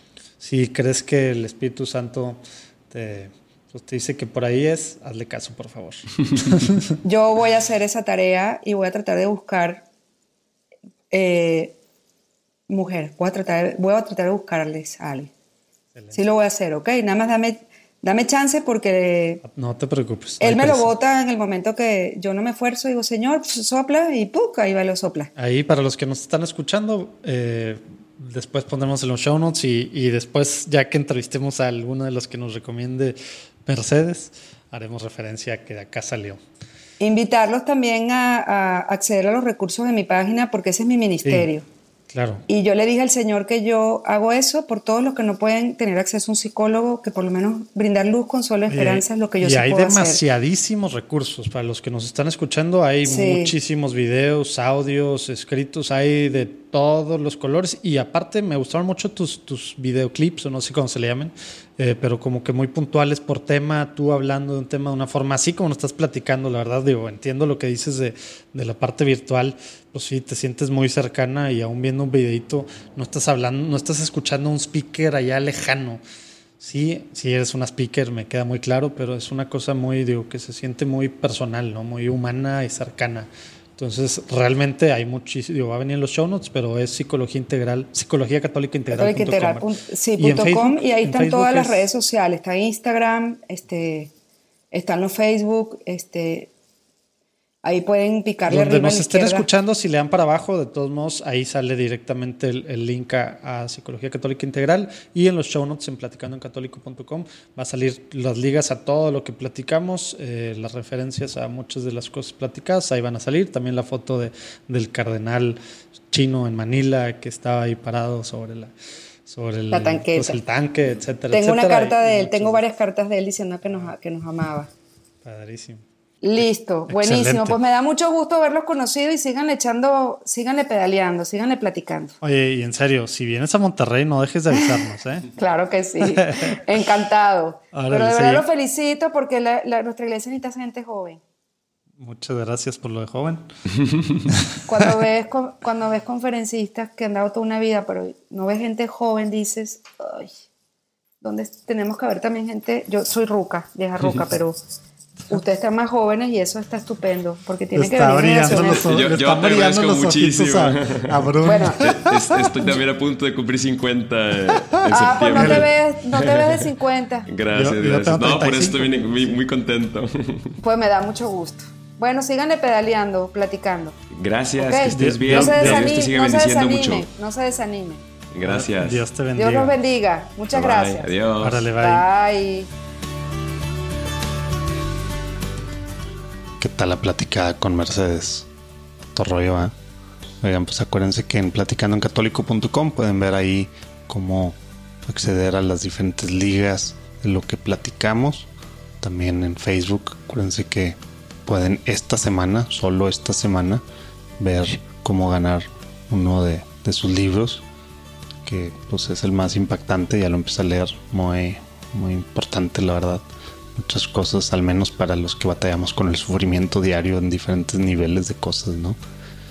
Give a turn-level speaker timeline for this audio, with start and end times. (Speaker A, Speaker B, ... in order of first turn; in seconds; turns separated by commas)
Speaker A: 0.4-2.4, Speaker A: 2.9-6.8, Speaker B: 7.0-9.8, Speaker B: 11.1-11.7, Speaker B: 12.7-15.3, Speaker B: 16.1-19.4, Speaker A: 19.4-20.9, Speaker B: 20.4-25.3, Speaker A: 25.4-36.4, Speaker B: 37.0-41.6, Speaker A: 42.1-42.4, Speaker B: 42.5-50.2, Speaker A: 48.7-76.0, Speaker B: 53.0-53.5, Speaker A: 76.6-89.7, Speaker B: 88.9-94.1, Speaker A: 90.2-91.8, Speaker B: 94.7-96.5, Speaker B: 97.6-99.5, Speaker A: 98.5-118.7, Speaker A: 119.3-122.6, Speaker B: 119.7-120.4, Speaker B: 121.3-124.7, Speaker A: 125.2-125.8, Speaker B: 126.2-132.1, Speaker A: 126.9-127.6, Speaker A: 132.2-135.3, Speaker B: 134.5-141.2, Speaker A: 136.0-136.6, Speaker A: 137.7-138.4, Speaker A: 142.0-143.4, Speaker B: 144.7-150.3, Speaker B: 151.2-154.6, Speaker B: 155.3-158.9, Speaker A: 157.8-162.8, Speaker C: 158.6-165.7, Speaker B: 161.4-161.8, Speaker B: 164.9-167.3, Speaker A: 165.3-166.7, Speaker C: 167.3-170.5, Speaker A: 167.5-169.3, Speaker B: 170.6-173.9, Speaker C: 174.1-177.1, Speaker B: 174.6-178.0, Speaker A: 174.9-175.9, Speaker C: 178.3-179.1, Speaker A: 178.4-179.8, Speaker B: 179.3-181.1, Speaker C: 180.5-181.7, Speaker A: 181.4-182.1, Speaker B: 181.8-182.7, Speaker D: 186.6-188.5, Speaker D: 189.1-189.7, Speaker D: 190.4-198.5, Speaker D: 199.0-203.8, Speaker D: 204.4-207.6, Speaker D: 208.4-213.2, Speaker D: 213.7-219.0